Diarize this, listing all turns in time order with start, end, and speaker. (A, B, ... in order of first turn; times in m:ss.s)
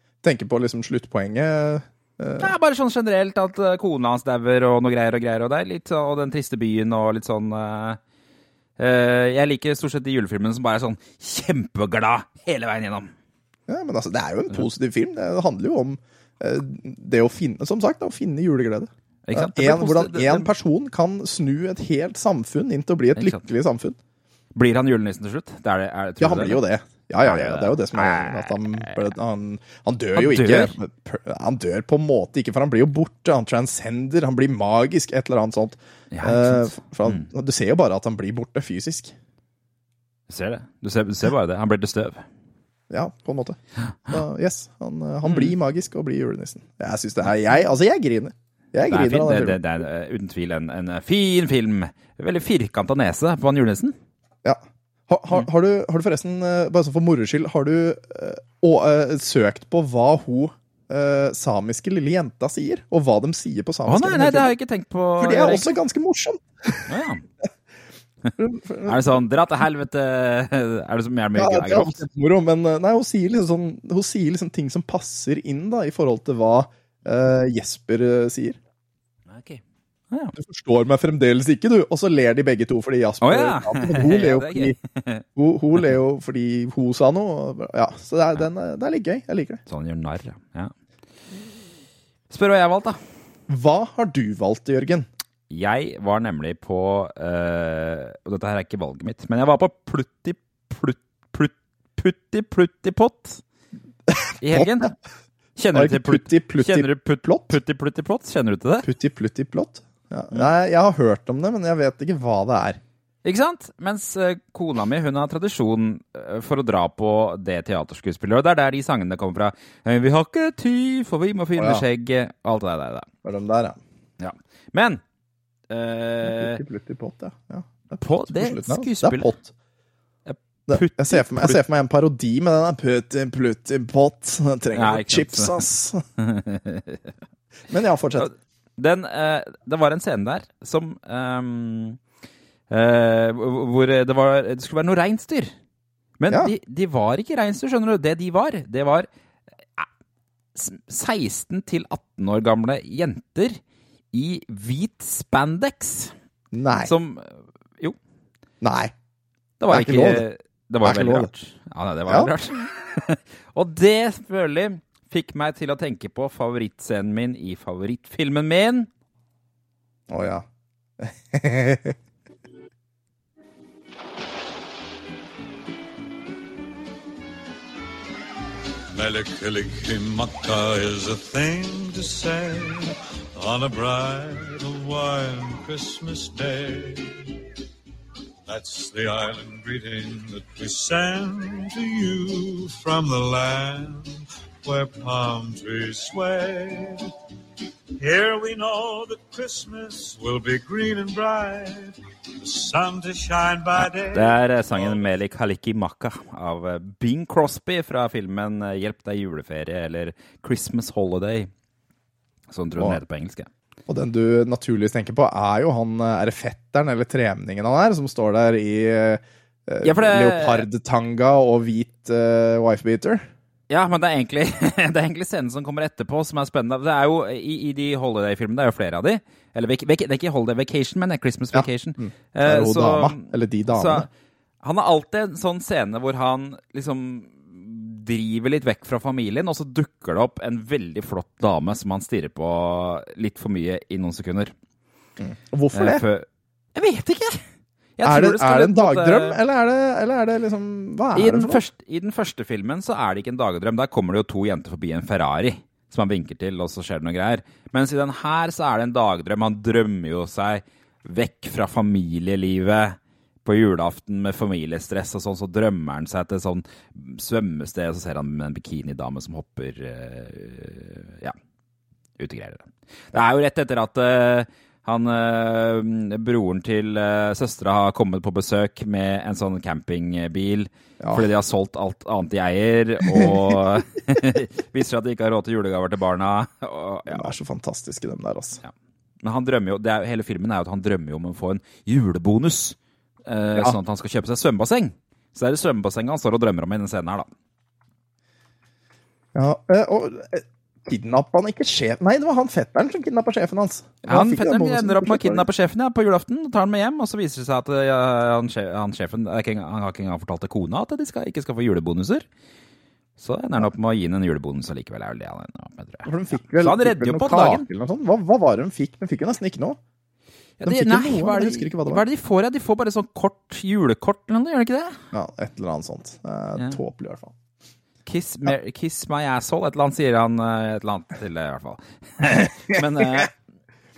0:00.2-0:02.5 A
0:02.4-0:08.0 B
0:08.8-0:13.1 B
0:13.7-0:24.0 A
0:19.3-0:20.5 B
0:23.2-0:23.4 B
0:24.5-0:26.6 B
0:26.2-0:39.1 A
0:27.2-0:29.1 B
0:30.1-0:30.8 B
0:36.1-0:37.3 B
0:40.3-0:42.2 B
0:42.9-0:43.6 A
0:43.9-0:44.1 B
0:44.1-0:49.6 A
0:45.2-0:45.5 B
0:48.9-0:54.0 B
0:54.4-1:04.5 A
1:03.8-1:05.7 B
1:05.2-1:07.0 A
1:06.9-1:07.2 B
1:08.4-1:09.2 A
1:08.8-1:12.0 B
1:11.3-1:18.6 A
1:19.3-1:20.4 B
1:20.4-1:24.8 A
1:23.2-1:25.2 B
1:25.4-1:29.6 A
1:29.7-1:30.7 B
1:32.3-1:33.0 B
1:33.5-1:35.0 A
1:35.5-1:43.4 B
1:44.1-1:44.9 A
1:44.4-1:44.9 B
1:45.6-1:48.9 B
1:45.7-1:47.6 A
1:48.8-1:52.8 A
1:53.2-2:03.1 B
2:01.6-2:01.8 A
2:03.2-2:03.8 A
2:04.2-2:05.0 B
2:05.7-2:06.6 B
2:06.2-2:09.5 A
2:08.0-2:09.3 B
2:10.2-2:11.6 B
2:10.7-2:16.0 A
2:14.7-2:15.6 B
2:16.2-2:17.1 B
2:17.7-2:18.3 A
2:18.2-2:22.0 B
2:22.7-2:25.5 B
2:26.2-2:29.1 B
2:30.5-2:33.6 B
2:34.1-2:36.1 B
2:36.5-2:36.9 A
2:36.8-2:38.0 B
2:38.6-2:38.9 A
2:39.6-2:48.9 B
2:39.7-2:40.2 A
2:40.8-2:41.3 A
2:50.1-2:50.4 A
2:51.0-2:52.0 A
2:58.9-3:07.3 C
3:08.4-3:17.1 C
3:18.0-3:25.1 C
3:23.7-3:31.5 B
3:32.5-3:33.5 B
3:33.9-3:43.3 A
3:39.8-3:40.6 B
3:43.7-3:54.0 B
3:51.5-3:54.1 A
3:54.6-4:04.5 B
4:05.2-4:06.0 A
4:05.7-4:07.4 B
4:08.0-4:09.4 B
4:08.0-4:11.6 A
4:11.1-4:31.4 B
4:32.2-4:47.3 B
4:43.1-4:43.5 A
4:47.1-4:48.6 A
4:48.6-4:57.3 B
4:59.3-5:05.5 A
5:04.1-5:12.2 B
5:13.2-5:17.6 B
5:16.0-5:19.8 A
5:20.6-5:25.0 B
5:20.6-5:22.0 A
5:25.1-5:27.3 A
5:28.0-5:33.3 B
5:32.7-5:33.3 A